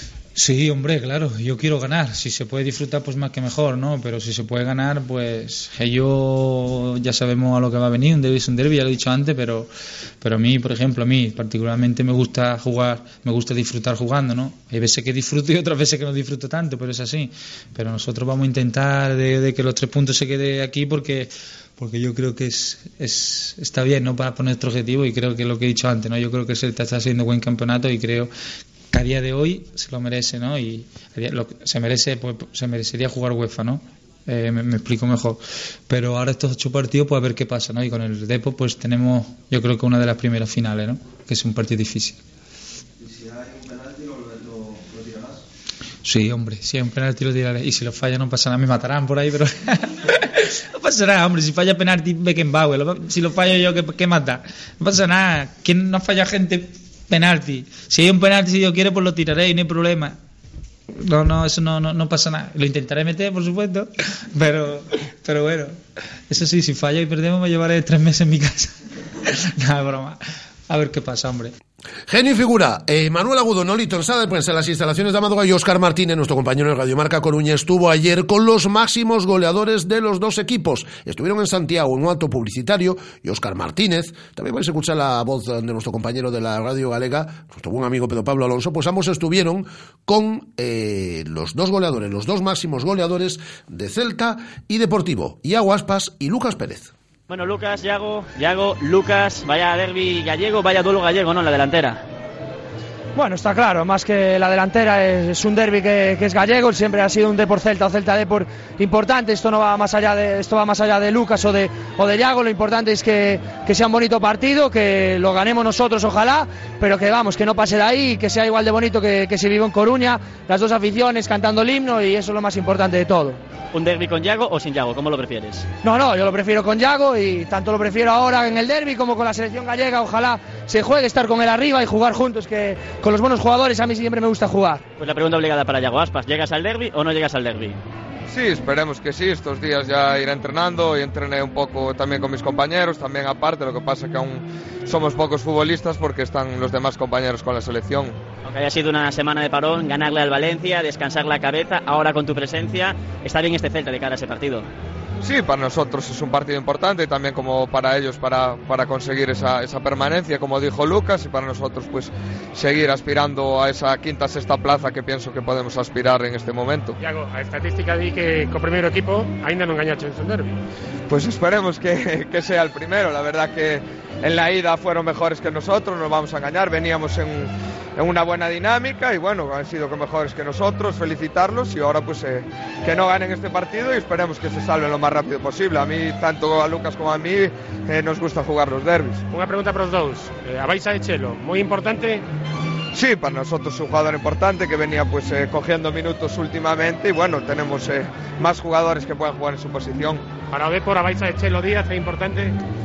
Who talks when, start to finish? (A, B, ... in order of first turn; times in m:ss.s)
0:00.4-0:09.7 A
0:10.2-0:28.3 A
0:28.9-0:42.2 A
0:43.0-0:45.4 B
0:46.0-1:00.2 A
1:01.0-1:05.8 A
1:06.3-1:11.5 A
1:12.1-1:36.9 C
1:37.3-1:42.0 D
1:43.2-2:03.4 E
2:03.7-2:05.7 D
2:05.8-2:14.8 E
2:15.0-2:17.8 D
2:18.3-2:28.2 F
2:28.4-2:34.7 D
2:35.2-2:47.0 F
2:47.0-2:50.5 G
2:51.1-3:09.2 F
3:09.4-3:12.2 G
3:12.9-3:20.2 F
3:20.5-3:22.5 G